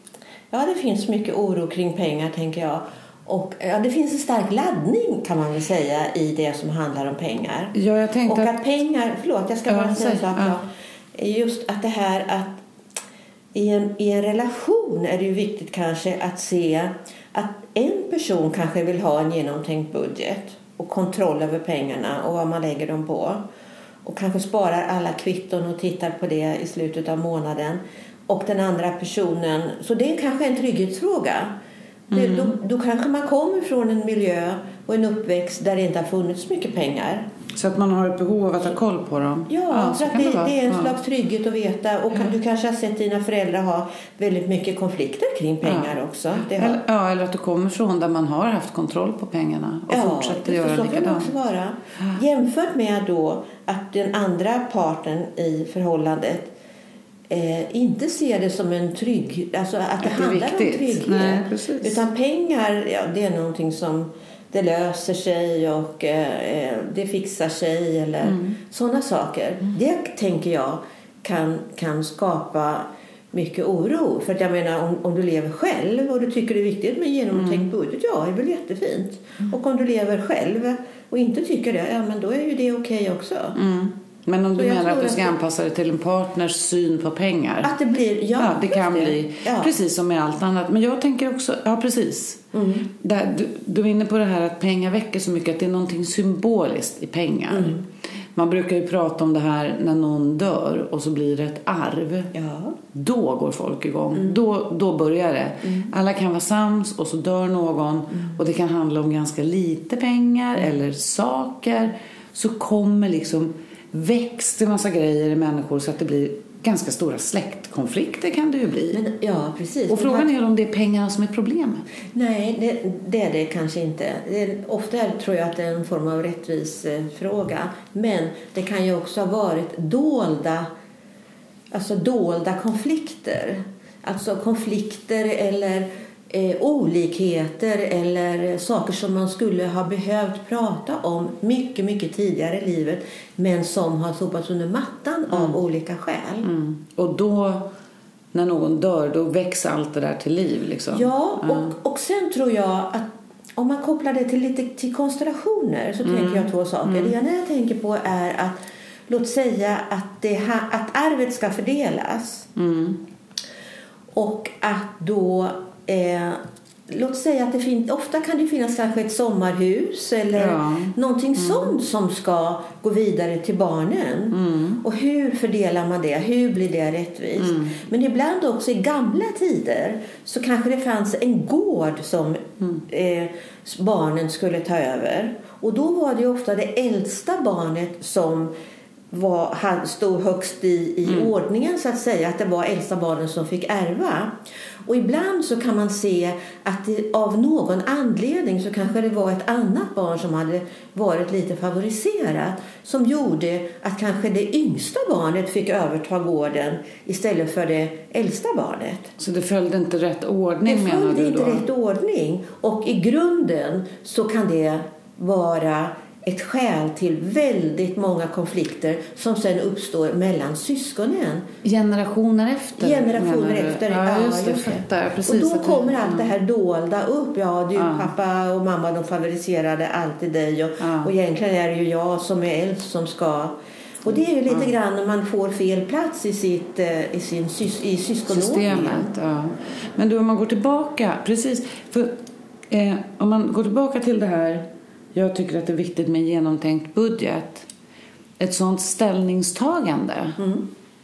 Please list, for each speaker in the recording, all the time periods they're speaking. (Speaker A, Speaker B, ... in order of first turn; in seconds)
Speaker A: 0.5-7.7, 8.2-12.6, 13.5-23.4, 24.0-31.5, 32.1-37.3, 39.5-46.8, 49.9-56.5, 57.3-83.6, 84.5-85.3, 87.6-89.7, 92.5-92.8, 97.5-97.8, 102.3-102.8, 118.9-120.3, 122.1-130.7, 131.7-146.5, 150.9-162.5, 164.1-188.5, 189.1-209.1, 210.6-221.4, 222.8-239.1, 250.4-250.6
Speaker B: 7.7-8.6, 9.7-10.5, 32.1-32.5, 37.5-40.9, 45.6-51.3, 60.0-62.0, 68.2-68.6, 77.3-77.7, 83.5-87.7, 88.4-97.8, 98.3-102.3, 102.9-119.0, 119.9-121.8, 145.3-145.6, 146.4-147.7, 148.3-151.7, 156.0-157.1, 162.6-163.0, 170.3-171.7, 174.3-174.8, 177.4-177.8, 209.2-211.6, 221.6-226.3, 227.8-228.1, 230.8-231.1, 238.3-247.7, 248.4-250.4